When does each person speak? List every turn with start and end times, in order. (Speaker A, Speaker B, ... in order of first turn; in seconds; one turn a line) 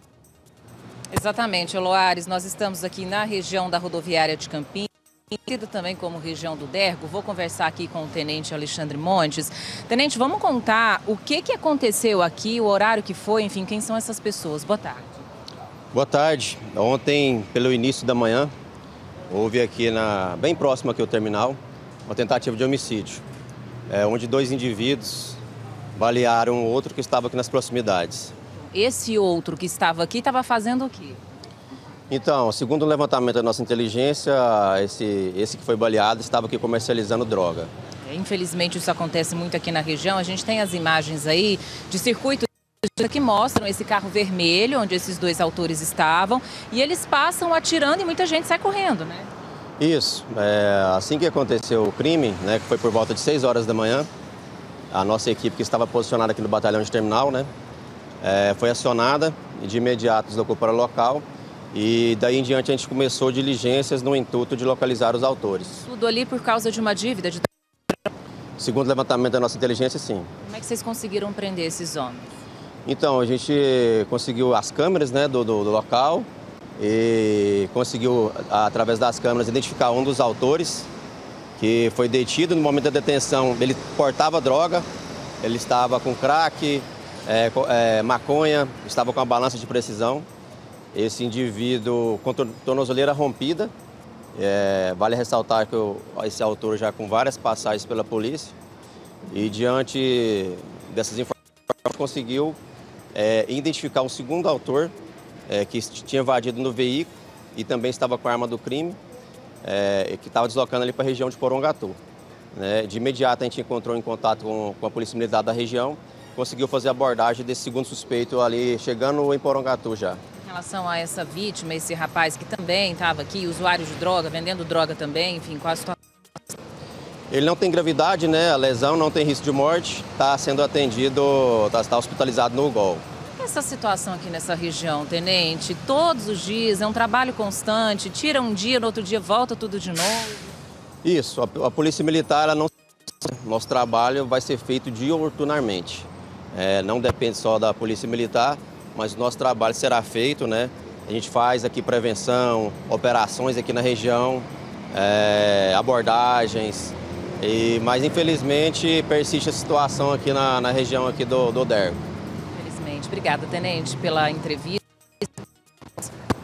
Speaker A: 1.1-15.1
Speaker B: 15.9-18.5
Speaker B: 19.3-23.2
Speaker B: 23.9-25.4
Speaker B: 25.9-28.3
Speaker A: 28.7-31.2
Speaker B: 32.1-37.7
Speaker A: 38.0-49.3
Speaker B: 49.8-54.1
Speaker B: 54.9-57.5
Speaker B: 58.2-65.8
Speaker A: 65.8-68.0
Speaker B: 68.6-70.3
Speaker A: 70.4-72.3
Speaker B: 72.9-76.3
Speaker B: 76.8-80.9
Speaker B: 81.6-84.8
Speaker B: 85.4-90.3
Speaker B: 90.9-93.7
Speaker B: 94.3-98.5
Speaker B: 99.3-102.6
Speaker B: 103.1-104.9
Speaker B: 105.5-109.0
Speaker B: 109.6-112.0
Speaker B: 112.5-120.2
Speaker A: 120.4-126.0
Speaker B: 127.3-133.0
Speaker A: 133.4-140.5
Speaker B: 141.0-142.7
Speaker B: 143.2-162.0
Speaker A: 162.5-165.3